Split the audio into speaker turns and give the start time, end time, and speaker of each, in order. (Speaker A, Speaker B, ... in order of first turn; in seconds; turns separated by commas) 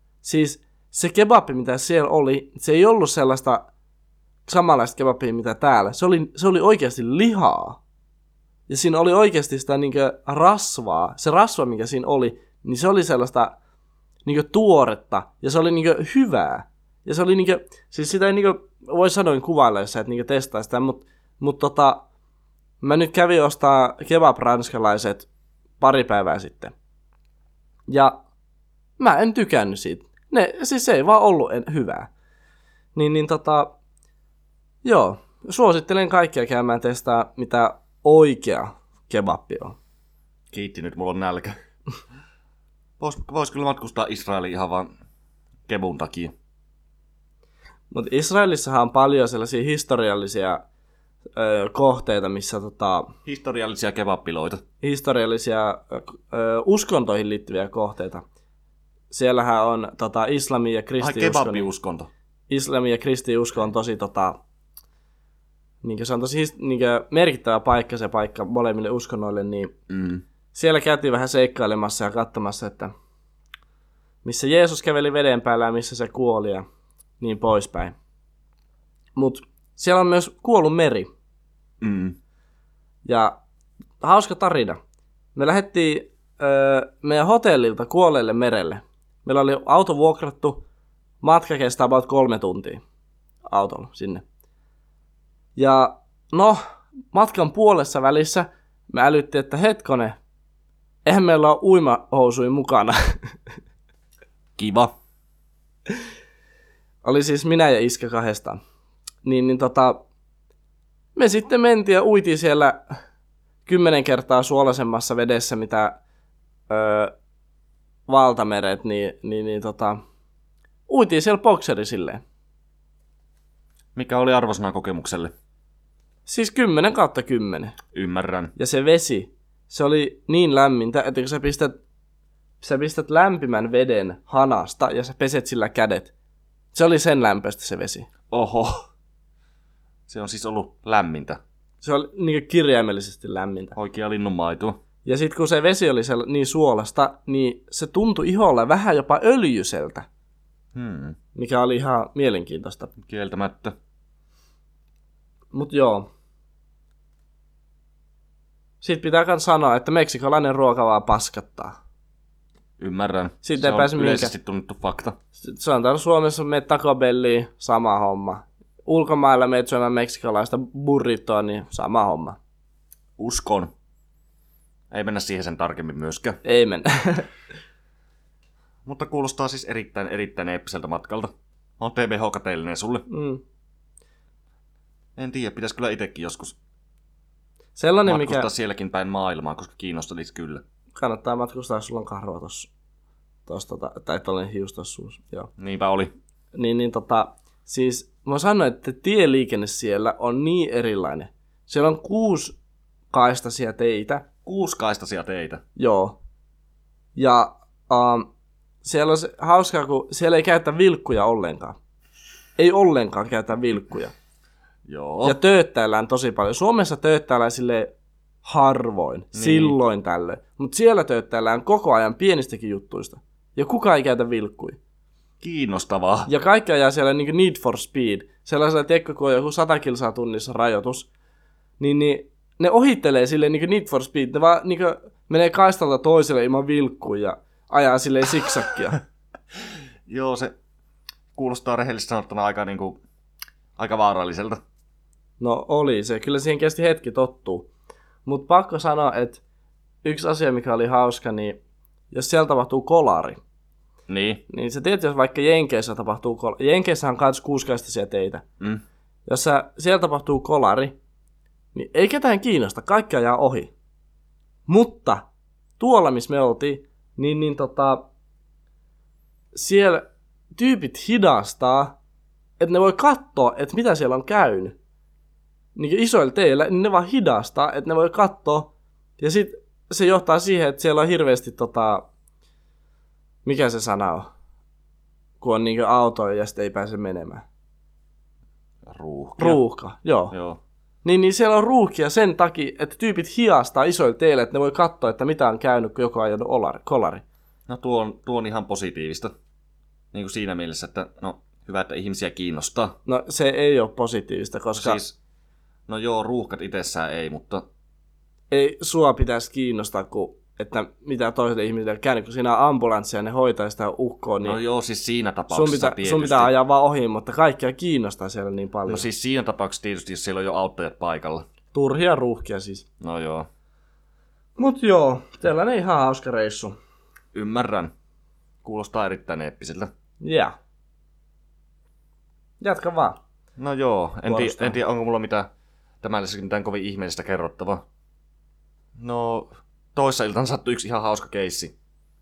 Speaker A: 0.2-3.6, Speaker A: 4.5-7.8, Speaker A: 8.7-13.6, Speaker A: 14.2-22.1, Speaker A: 22.8-25.3, Speaker A: 25.8-26.7, Speaker A: 27.9-28.2, Speaker A: 29.0-32.1, Speaker A: 33.0-33.8, Speaker A: 34.8-39.8, Speaker B: 40.5-41.6, Speaker B: 43.0-44.9, Speaker B: 45.7-46.3, Speaker A: 47.9-50.6, Speaker A: 51.3-53.1, Speaker B: 53.3-54.6, Speaker A: 54.8-58.2, Speaker A: 59.1-61.7, Speaker B: 61.0-62.1, Speaker A: 62.5-64.4, Speaker A: 65.8-69.7, Speaker B: 69.9-70.2, Speaker A: 70.5-72.9, Speaker A: 74.2-76.7, Speaker A: 77.2-78.0, Speaker A: 79.2-81.1, Speaker B: 81.8-82.2, Speaker A: 83.0-83.4, Speaker A: 84.0-84.8, Speaker A: 85.3-90.7, Speaker A: 91.2-92.8, Speaker A: 93.5-94.2, Speaker A: 95.6-100.2, Speaker A: 101.0-103.6, Speaker B: 104.6-104.9, Speaker A: 107.0-108.6, Speaker A: 109.2-110.0, Speaker A: 111.2-113.0, Speaker A: 113.7-116.0, Speaker A: 116.7-117.1, Speaker A: 118.1-120.0, Speaker A: 120.9-122.2, Speaker B: 124.0-125.3, Speaker A: 126.3-127.8, Speaker B: 127.9-128.5, Speaker A: 128.6-131.8, Speaker A: 132.6-136.1, Speaker A: 136.7-138.1, Speaker B: 138.3-138.9, Speaker B: 140.1-141.4, Speaker A: 141.8-143.8, Speaker B: 143.8-144.8, Speaker A: 145.1-150.1, Speaker B: 150.8-151.2, Speaker A: 151.3-152.9, Speaker B: 153.0-153.8, Speaker A: 155.5-156.1, Speaker A: 158.8-161.8, Speaker B: 162.8-165.2, Speaker A: 163.4-164.3, Speaker A: 165.4-172.4, Speaker B: 173.2-173.7, Speaker B: 174.9-176.4, Speaker A: 176.4-177.3, Speaker B: 178.9-183.1, Speaker A: 183.1-183.4, Speaker B: 185.2-186.6, Speaker A: 187.8-188.5, Speaker B: 188.1-190.6, Speaker A: 190.9-192.7, Speaker A: 193.5-195.5, Speaker B: 195.6-196.1, Speaker A: 196.5-202.6, Speaker A: 203.1-204.3, Speaker B: 204.4-205.6, Speaker A: 205.8-206.2, Speaker A: 207.2-208.3, Speaker A: 208.8-211.8, Speaker A: 212.6-214.1, Speaker B: 214.9-215.4, Speaker A: 215.2-217.9, Speaker A: 218.4-224.8, Speaker B: 219.3-219.8, Speaker B: 225.4-226.3, Speaker A: 226.3-231.1, Speaker A: 231.8-239.0, Speaker B: 240.1-240.5, Speaker B: 241.3-243.0, Speaker B: 243.8-244.6, Speaker A: 245.4-247.7, Speaker A: 248.3-249.4, Speaker A: 250.0-251.6, Speaker A: 252.1-253.4, Speaker B: 254.1-254.4, Speaker A: 254.5-258.4, Speaker A: 259.3-261.0, Speaker A: 261.7-263.7, Speaker A: 264.7-265.3, Speaker A: 265.8-268.1, Speaker A: 269.5-272.0, Speaker A: 272.6-274.8, Speaker A: 275.8-282.1, Speaker A: 283.4-284.3, Speaker A: 285.4-287.4, Speaker B: 288.9-289.6, Speaker A: 289.4-290.4, Speaker B: 290.3-290.6, Speaker A: 291.0-297.2, Speaker B: 297.7-299.3, Speaker B: 300.1-303.0, Speaker A: 303.1-305.0, Speaker B: 304.7-305.2, Speaker B: 305.9-307.6, Speaker A: 308.5-314.6, Speaker B: 314.4-316.5, Speaker A: 315.5-319.1, Speaker B: 318.9-321.4, Speaker A: 321.7-322.9, Speaker B: 323.0-323.5, Speaker A: 324.6-326.8, Speaker B: 327.3-327.9, Speaker B: 328.6-329.9, Speaker A: 330.2-330.6, Speaker A: 332.6-333.2, Speaker B: 333.6-335.5, Speaker A: 334.3-334.8, Speaker B: 336.0-337.8, Speaker B: 339.0-341.7